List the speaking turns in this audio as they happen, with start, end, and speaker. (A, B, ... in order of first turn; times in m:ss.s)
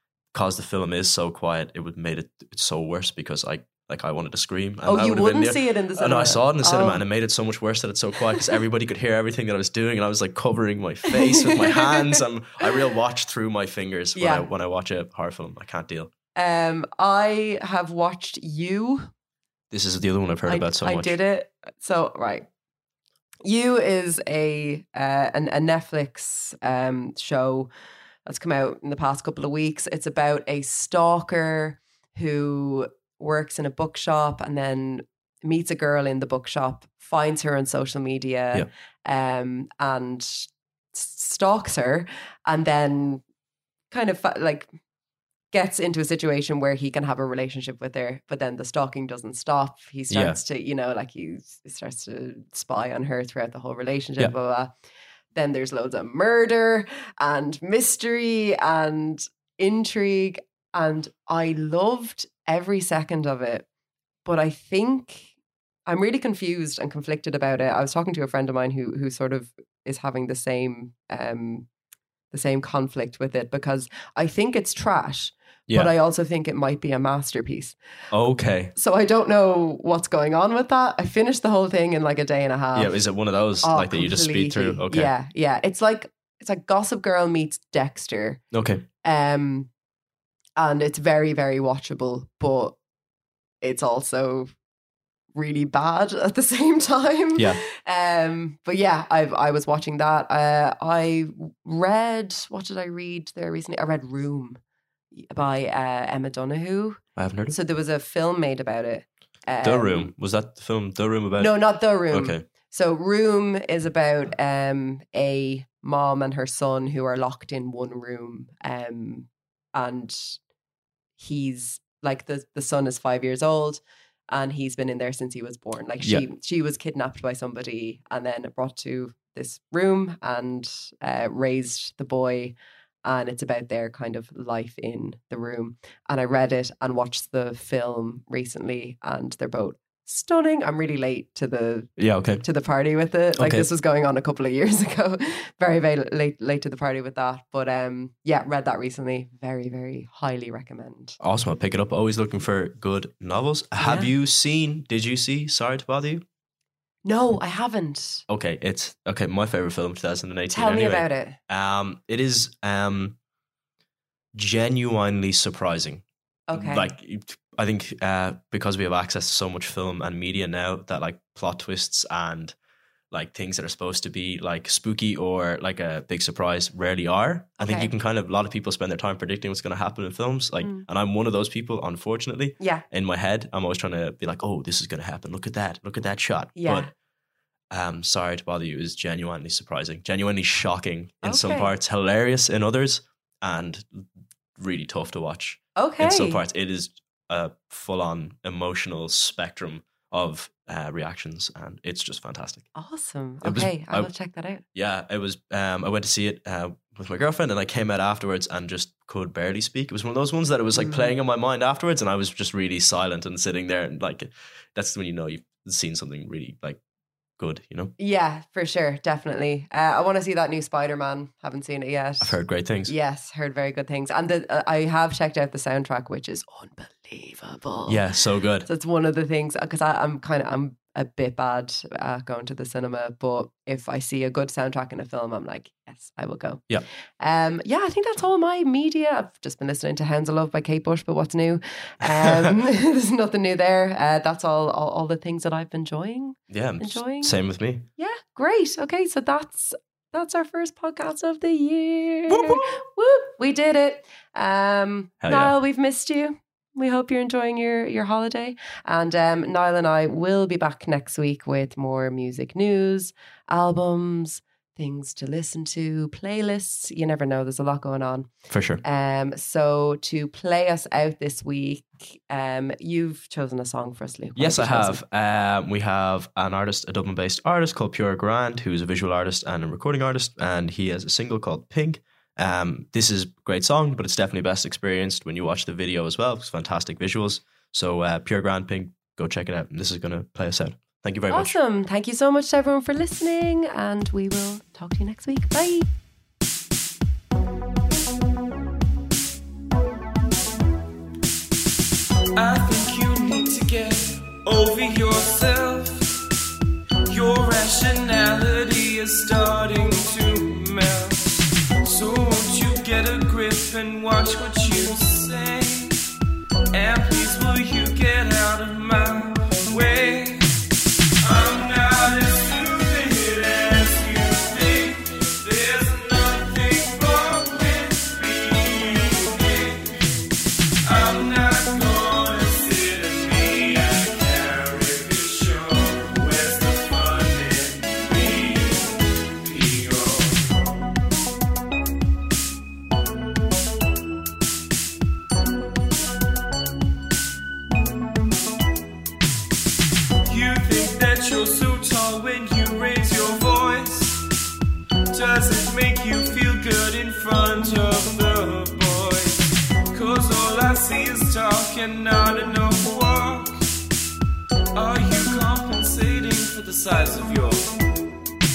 0:00.3-0:16.1 A
0:04.9-0:07.0 B
0:11.1-0:12.7 B
0:14.1-0:14.5 B
0:16.4-0:19.1 B
0:19.7-0:21.2 A
0:20.5-0:22.5 B
0:23.4-0:27.7 B
0:28.2-0:43.2 B
0:43.9-0:44.7 B
0:45.5-0:54.7 B
0:50.1-0:50.4 A
0:55.3-1:03.6 B
1:04.2-1:05.3 B
1:05.9-1:11.7 B
1:12.3-1:17.8 B
1:18.1-1:18.7 A
1:18.7-1:23.0 B
1:22.7-1:25.1 A
1:23.6-1:28.4 B
1:28.5-1:28.8 A
1:29.0-1:29.7 B
1:30.6-1:32.8 B
1:33.6-1:34.5 B
1:35.3-1:44.6 B
1:45.1-1:50.1 B
1:47.2-1:47.6 A
1:49.6-1:52.4 A
1:51.4-2:00.4 B
2:01.2-2:31.2 B
2:22.0-2:22.4 A
2:23.4-2:23.7 A
2:31.2-2:36.2 A
2:33.8-2:34.1 B
2:37.0-2:38.2 B
2:38.3-2:43.2 A
2:40.5-2:41.4 B
2:44.3-2:52.6 A
2:46.5-2:46.9 B
2:53.1-3:06.9 A
2:57.6-2:57.9 B
3:02.6-3:02.8 B
3:06.6-3:06.9 B
3:07.7-3:14.0 A
3:11.2-3:11.7 B
3:14.6-3:22.7 A
3:15.8-3:16.4 B
3:22.7-3:24.6 B
3:23.4-3:24.1 A
3:24.7-3:36.8 A
3:30.7-3:31.1 B
3:37.4-3:37.9 A
3:38.0-3:48.0 B
3:42.2-3:42.9 A
3:47.9-3:48.7 A
3:48.6-3:56.6 B
3:57.2-4:07.3 B
4:06.5-4:07.9 A
4:08.0-4:28.3 B
4:12.3-4:12.7 A
4:15.2-4:15.5 A
4:28.5-4:28.8 A
4:28.8-4:35.0 B
4:34.4-4:51.6 A
4:51.3-4:55.9 B
5:02.3-5:06.2 C
5:07.1-5:11.3 C
5:11.8-5:16.0 C
5:16.7-5:20.6 C
5:21.2-5:30.0 C
5:30.8-5:40.6 C
5:50.2-5:54.2 C
5:55.1-6:03.6 C
6:04.7-6:07.7 C